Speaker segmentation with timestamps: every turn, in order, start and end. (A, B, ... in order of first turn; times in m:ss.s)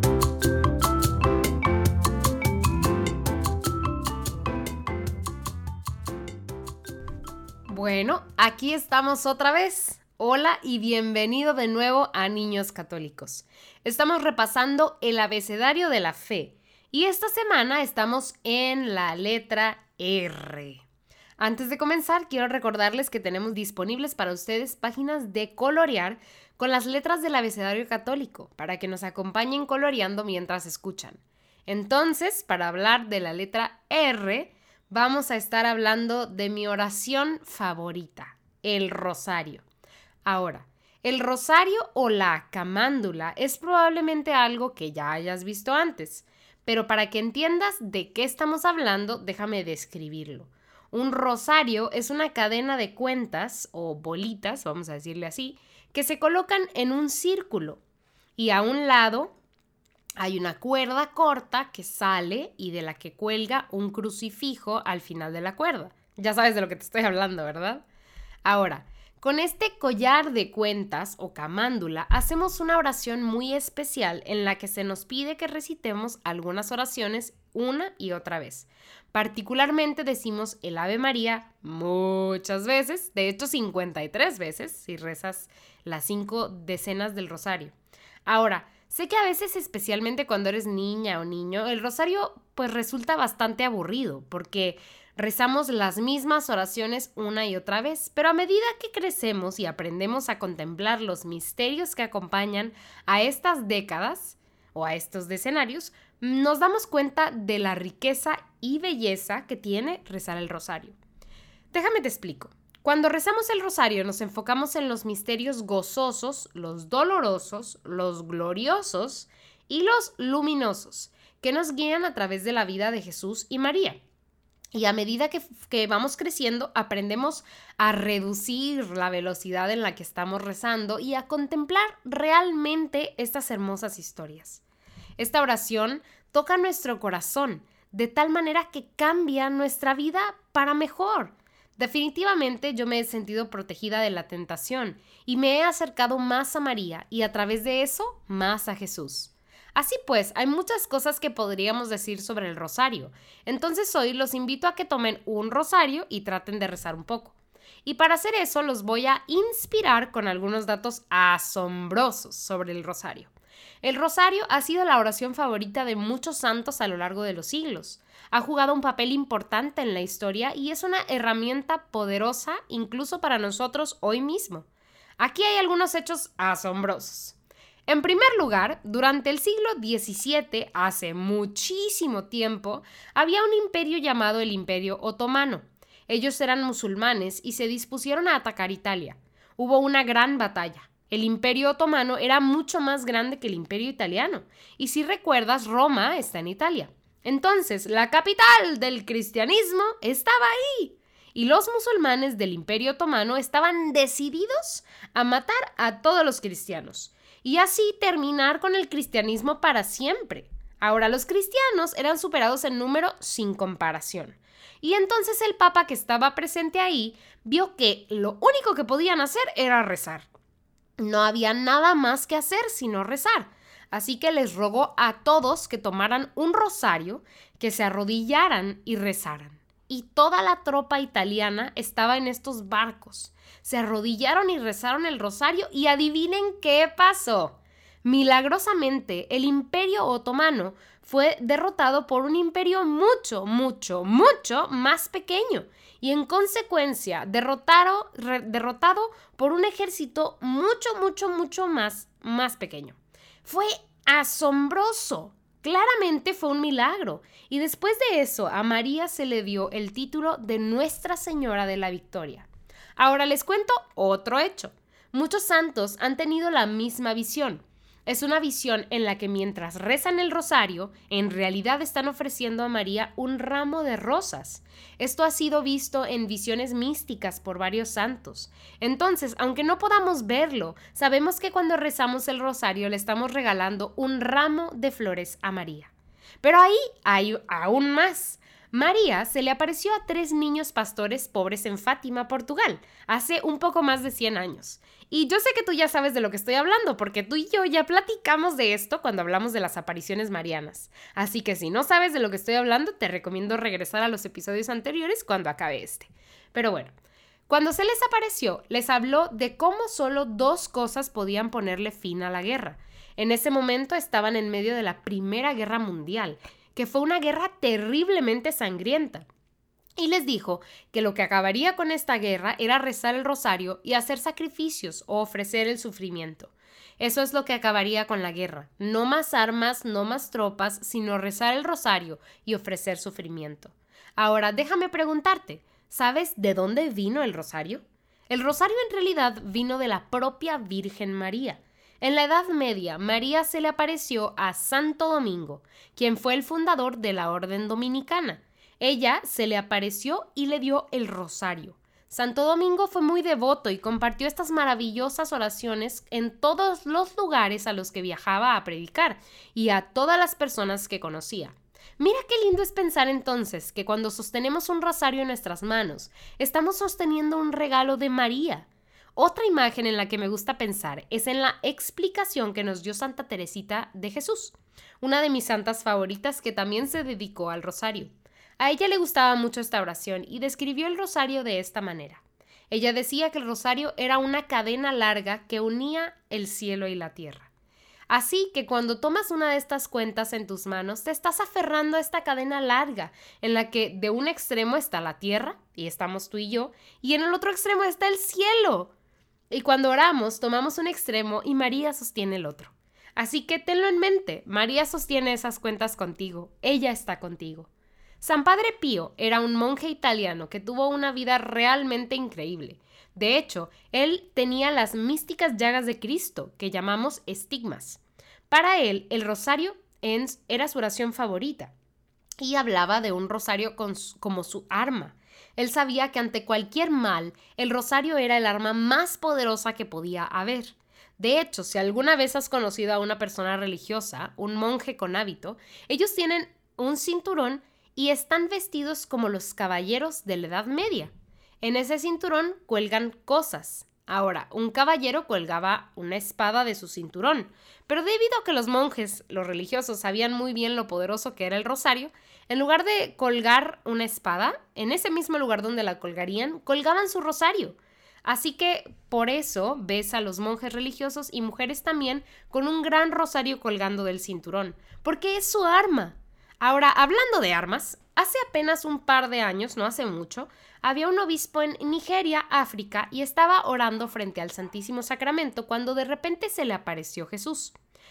0:07.7-0:20.8 A
0:21.4-0:39.6 A
0:40.2-0:57.8 A
0:58.4-0:59.3 A
1:00.2-1:07.8 A
1:08.4-1:27.8 A
1:28.3-1:51.0 A
1:51.7-2:04.0 A
2:04.7-2:14.6 A
2:15.2-2:54.7 A
2:55.2-3:40.3 A
3:41.0-5:06.9 A
5:07.5-5:19.3 A
5:20.0-6:27.5 A
6:28.1-6:38.9 A
6:39.5-7:01.7 A
7:02.4-7:57.8 A